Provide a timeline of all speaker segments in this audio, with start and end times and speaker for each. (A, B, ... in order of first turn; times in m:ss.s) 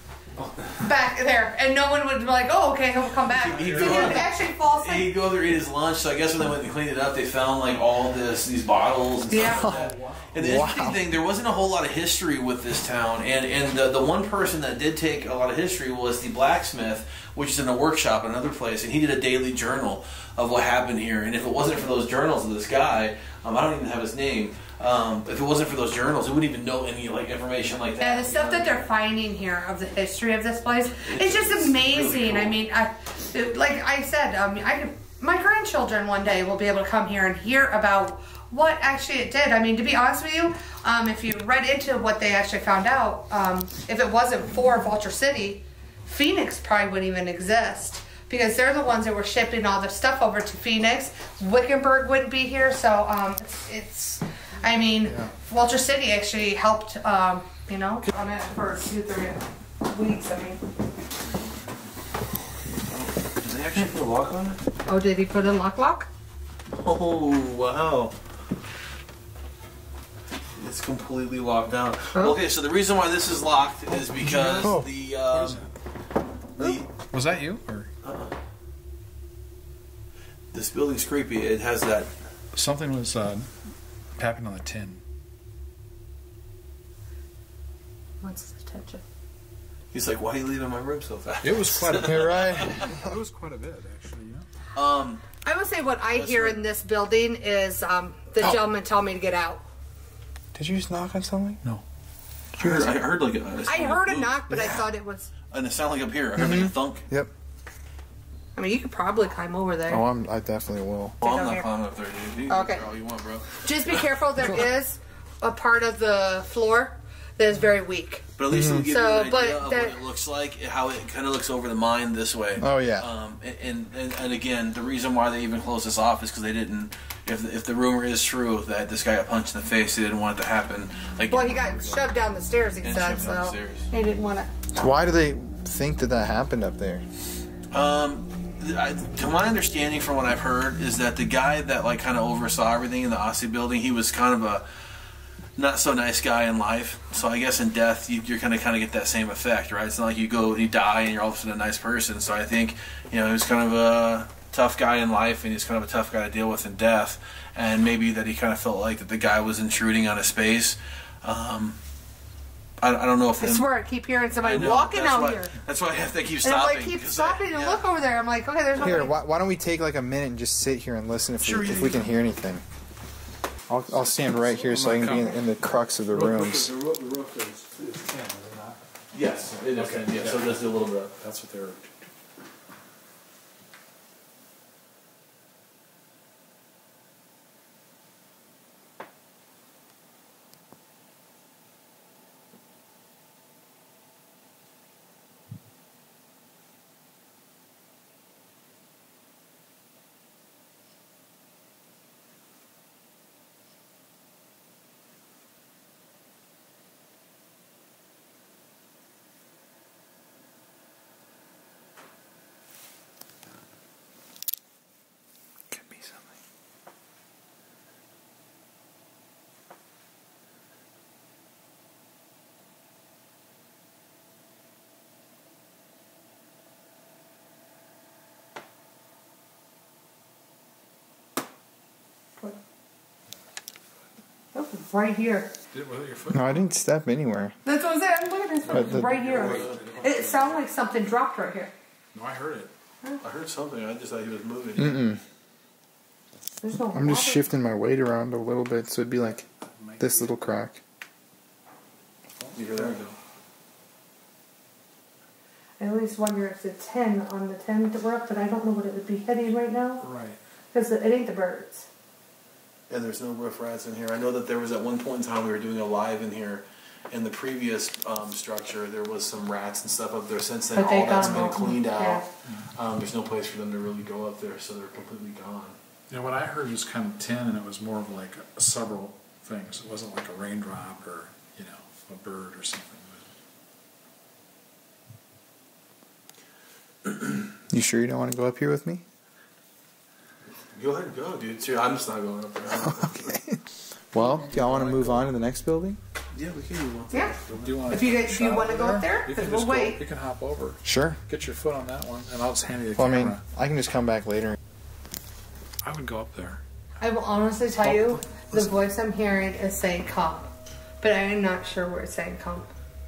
0:00.8-0:05.1 A
0:03.2-0:04.3 B
0:03.4-0:28.8 C
0:09.3-0:09.7 A
0:09.4-0:10.3 B
0:10.4-0:11.0 D
0:28.0-1:00.6 A
0:31.0-0:32.6 C
0:55.0-0:55.3 D
1:02.9-1:04.6 C
1:04.8-1:06.1 A
1:06.7-1:08.2 C
1:10.6-1:15.6 C
1:14.2-1:15.7 B
1:14.6-1:14.9 D
1:16.6-1:16.9 C
1:17.0-1:17.9 B
1:18.0-1:18.3 C
1:20.5-1:22.1 C
1:22.5-1:23.5 B
1:24.2-1:25.0 B
1:28.2-1:29.0 A
1:29.9-1:32.9 C
1:31.4-1:34.4 B
1:32.0-1:33.1 D
1:34.7-1:35.2 C
1:35.4-1:39.6 A
1:36.1-1:36.6 C
1:40.5-1:41.6 D
1:42.6-1:44.4 C
1:42.6-1:43.0 D
1:43.6-1:45.3 A
1:44.5-1:44.8 D
1:45.5-1:47.0 C
1:46.3-1:47.3 D
1:48.5-1:50.0 A
1:49.9-1:51.2 D
1:51.2-1:51.7 A
1:51.2-1:54.0 C
1:52.5-1:52.8 A
1:53.6-2:00.0 A
1:58.4-2:12.0 C
1:58.5-1:58.9 D
2:02.6-2:03.1 D
2:11.3-2:14.5 A
2:12.8-2:13.9 C
2:14.7-2:17.0 D
2:17.7-2:24.6 C
2:25.6-2:41.8 C
2:42.8-2:43.7 C
2:43.4-2:45.5 A
2:44.4-2:47.8 C
2:46.4-2:49.1 A
2:48.8-2:52.6 D
2:51.4-2:52.1 C
2:53.7-2:56.7 D
2:53.9-2:55.5 B
2:56.1-2:58.8 B
2:59.1-3:01.1 C
2:59.5-3:01.9 B
3:35.7-3:36.3 D
3:54.5-3:55.5 A
3:55.7-3:56.6 B
3:56.3-3:57.6 D
3:57.6-4:01.7 A
3:58.6-4:00.6 B
3:58.7-3:59.1 D
3:59.2-3:59.8 C
4:02.1-4:02.7 B
4:03.2-4:05.1 C
4:04.8-4:05.2 D
4:06.6-4:07.4 A
4:06.8-4:09.5 D
4:09.7-4:10.4 B
4:10.0-4:10.8 D
4:12.4-4:13.1 B
4:12.5-4:13.0 C
4:15.8-4:20.0 A
4:20.0-4:20.4 B
4:20.7-4:21.8 A
4:22.9-4:32.2 C
4:30.7-4:32.2 A
4:32.7-4:35.8 C
4:36.1-4:43.2 B
4:47.7-4:49.0 D
4:50.7-4:53.3 C
4:52.7-4:56.0 D
4:54.1-4:55.3 B
4:56.3-4:57.6 C
4:57.5-5:03.4 B
4:57.9-5:00.0 A
5:00.8-5:01.2 D
5:03.0-5:04.6 D
5:05.8-5:06.6 B
5:07.0-5:10.5 A
5:07.8-5:08.6 C
5:11.0-5:12.7 A